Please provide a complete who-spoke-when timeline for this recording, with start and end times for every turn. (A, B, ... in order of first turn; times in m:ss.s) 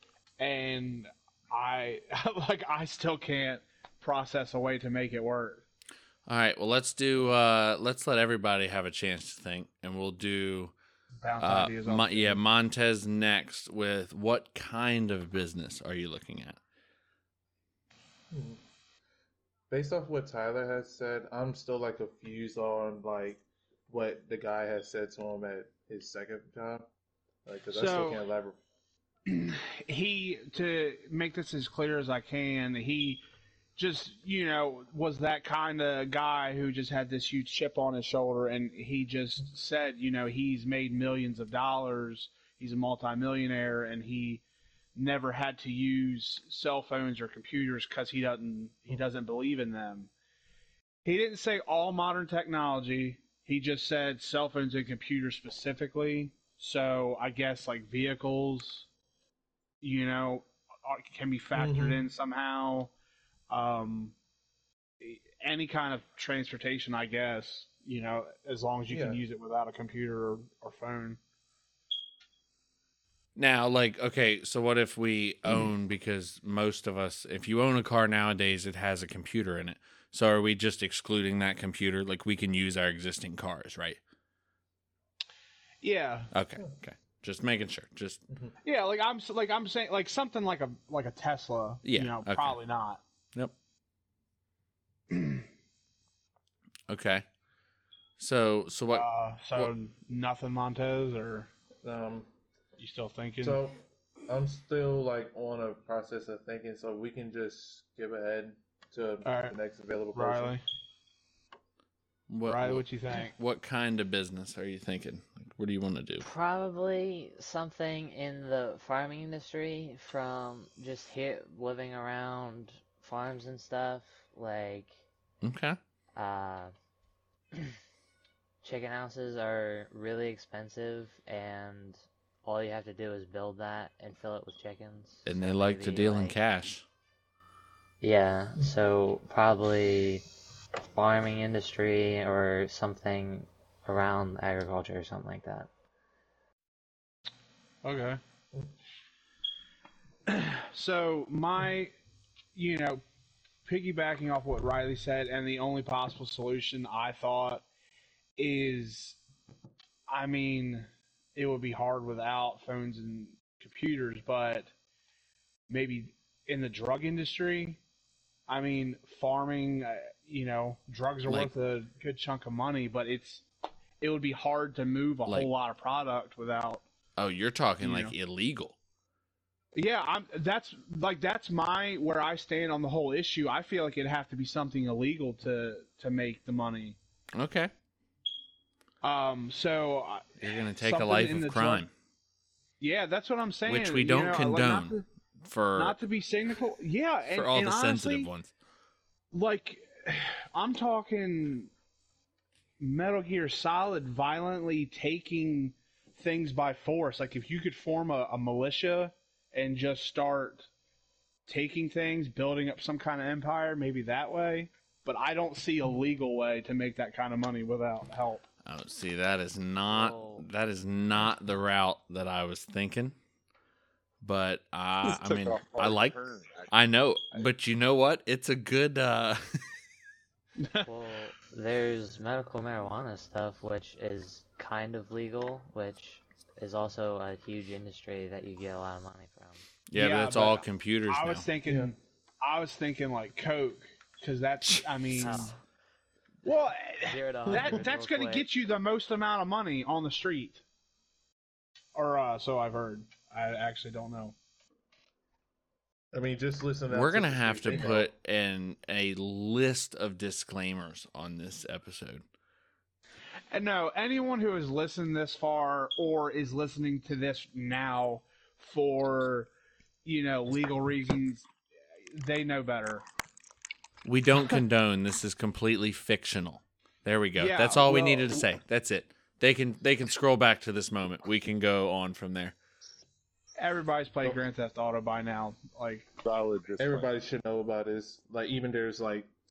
0:00.4-0:05.6 A
0:06.3-0:10.7 B
0:11.2-0:12.4 A
0:11.4-0:16.6 B
0:18.3-0:18.6 C
0:19.7-0:26.9 C
0:27.5-0:28.6 C
0:27.7-0:28.2 A
0:29.3-0:33.2 A
0:33.8-0:44.4 A
0:45.0-0:50.1 A
0:51.0-0:58.9 A
0:59.8-1:02.9 A
1:01.6-1:02.0 C
1:03.5-1:04.2 A
1:05.0-1:11.2 A
1:08.9-1:09.2 C
1:13.4-1:24.0 B
1:25.8-1:26.3 A
1:26.3-1:28.2 B
1:28.6-1:33.0 A
1:31.8-1:32.6 B
1:35.2-1:35.4 A
1:36.9-1:37.2 B
1:38.2-1:39.7 B
1:38.9-1:41.5 A
1:41.8-1:42.3 C
1:42.8-1:43.6 A
1:43.4-1:50.6 C
1:49.2-1:49.6 A
1:50.1-1:50.6 A
1:52.3-1:56.2 B
1:52.4-1:53.4 A
1:56.2-2:05.0 D
2:05.4-2:05.8 B
2:06.2-2:06.7 D
2:08.6-2:16.4 D
2:15.2-2:16.8 B
2:18.0-2:20.2 D
2:20.8-2:25.7 D
2:27.8-2:28.2 A
2:30.3-2:31.9 A
2:32.5-2:33.0 A
2:33.6-2:37.6 A
2:38.4-2:39.2 A
2:40.1-2:44.7 A
2:45.7-2:47.8 A
2:48.5-2:53.4 A
2:54.0-2:56.8 A
2:57.2-2:58.8 B
2:57.8-2:58.2 A
2:59.7-3:07.0 A
3:07.4-3:07.7 B
3:09.0-3:11.8 A
3:10.4-3:11.9 B
3:12.8-3:15.1 A
3:13.7-3:15.0 B
3:15.5-3:16.0 B
3:15.8-3:18.3 A
3:17.3-3:18.5 B
3:19.3-3:21.7 A
3:22.8-3:30.7 A
3:31.5-3:38.4 A
3:38.6-3:43.2 B
3:39.9-3:40.5 D
3:44.2-3:46.2 B
3:45.0-3:47.5 E
3:46.7-3:49.6 B
3:50.6-3:50.9 A
3:50.8-3:59.6 D
3:59.9-4:01.5 B
4:00.0-4:05.6 A
4:01.7-4:01.9 C
4:04.7-4:05.4 B
4:05.1-4:05.6 D
4:06.4-4:10.6 A
4:07.1-4:08.5 D
4:12.0-4:14.4 A
4:16.1-4:18.1 C
4:16.9-4:22.2 B
4:23.5-4:29.5 A
4:30.0-4:31.5 A
4:32.1-4:33.0 A
4:34.0-4:42.6 B
4:37.4-4:38.5 A
4:43.6-4:46.1 A
4:46.2-4:47.1 E
4:46.8-4:49.3 C